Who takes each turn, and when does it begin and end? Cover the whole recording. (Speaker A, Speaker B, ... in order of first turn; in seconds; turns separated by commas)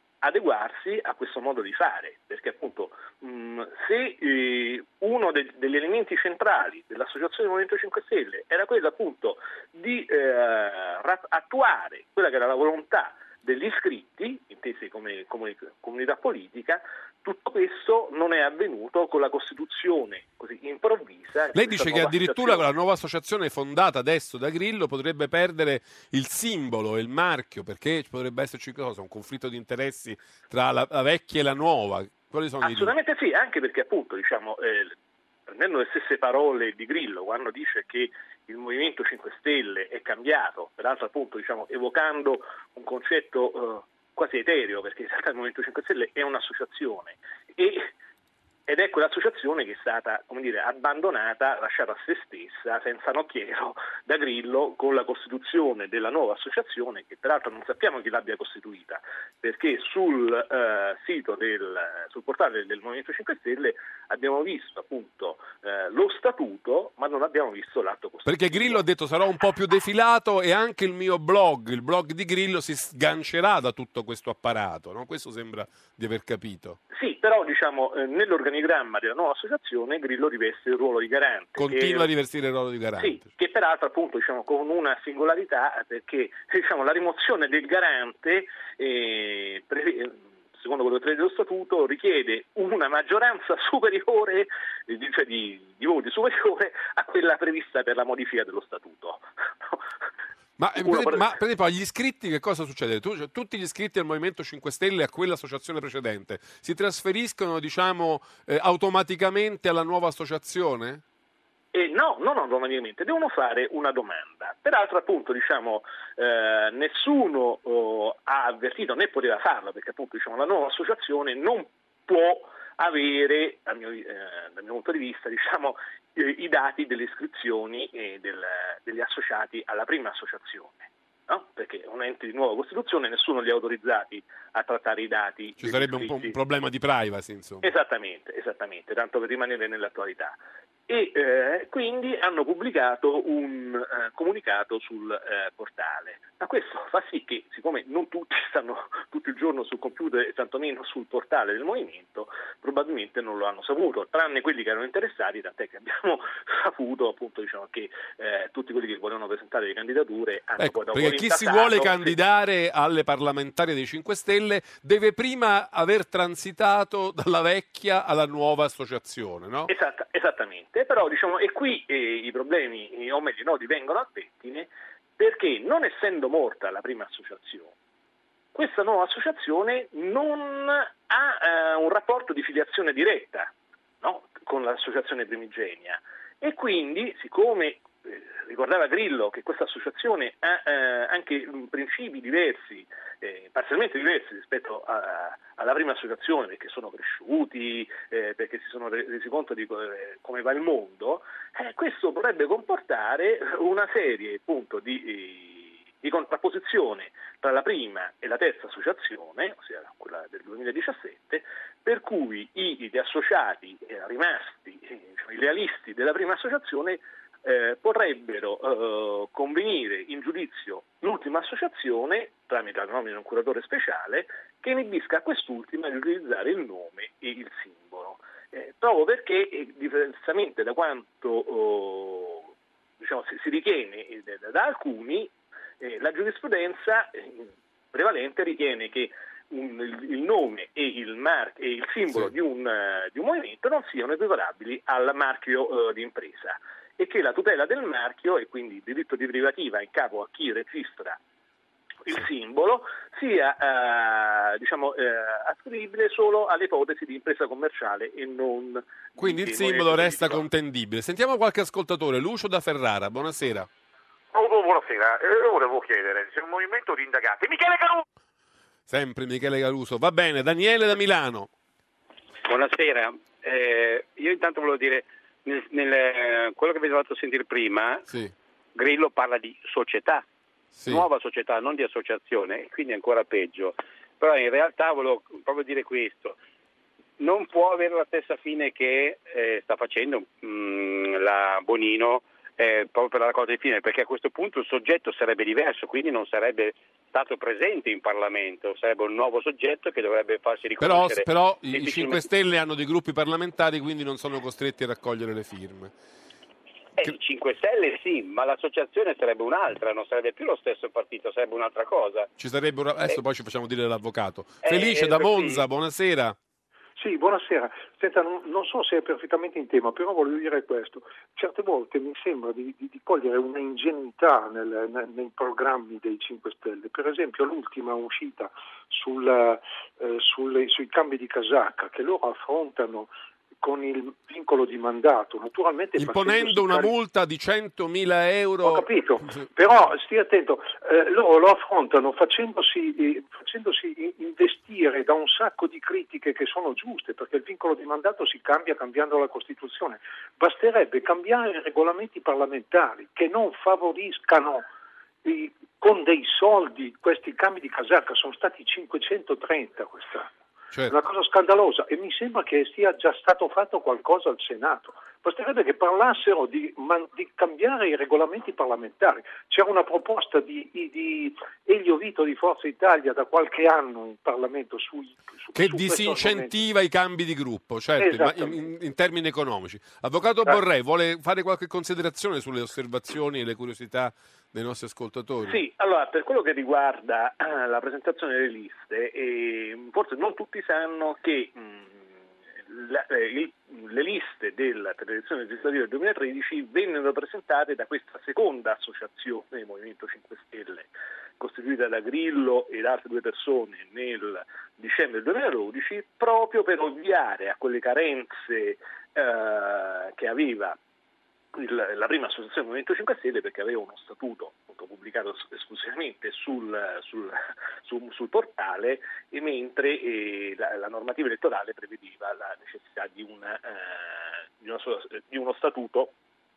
Speaker A: 0.2-22.6, Speaker B: 21.5-32.9, Speaker A: 32.6-35.0, Speaker A: 35.5-47.9, Speaker A: 48.7-68.8, Speaker B: 68.2-76.8, Speaker A: 76.9-82.1, Speaker B: 81.6-83.2, Speaker A: 83.0-99.8, Speaker B: 100.6-111.0, Speaker A: 100.8-101.3, Speaker A: 111.7-136.4, Speaker B: 135.6-137.7, Speaker A: 137.6-162.2, Speaker B: 160.6-169.7, Speaker A: 169.7-177.7, Speaker A: 178.5-251.2, Speaker A: 252.1-260.4, Speaker B: 259.2-263.7, Speaker C: 264.3-268.0, Speaker B: 268.9-271.5, Speaker D: 272.4-278.1, Speaker B: 278.1-278.3, Speaker D: 278.8-280.2, Speaker B: 280.8-281.1, Speaker D: 280.9-286.4, Speaker D: 287.2-302.3, Speaker B: 300.8-305.9, Speaker D: 307.0-312.3, Speaker B: 312.4-316.4, Speaker D: 314.6-315.7, Speaker E: 317.0-336.9, Speaker B: 336.0-338.9, Speaker E: 338.6-354.6, Speaker E: 355.2-360.3, Speaker E: 360.9-376.6, Speaker B: 375.5-385.6, Speaker E: 378.0-378.7, Speaker A: 385.5-410.8, Speaker A: 411.5-426.1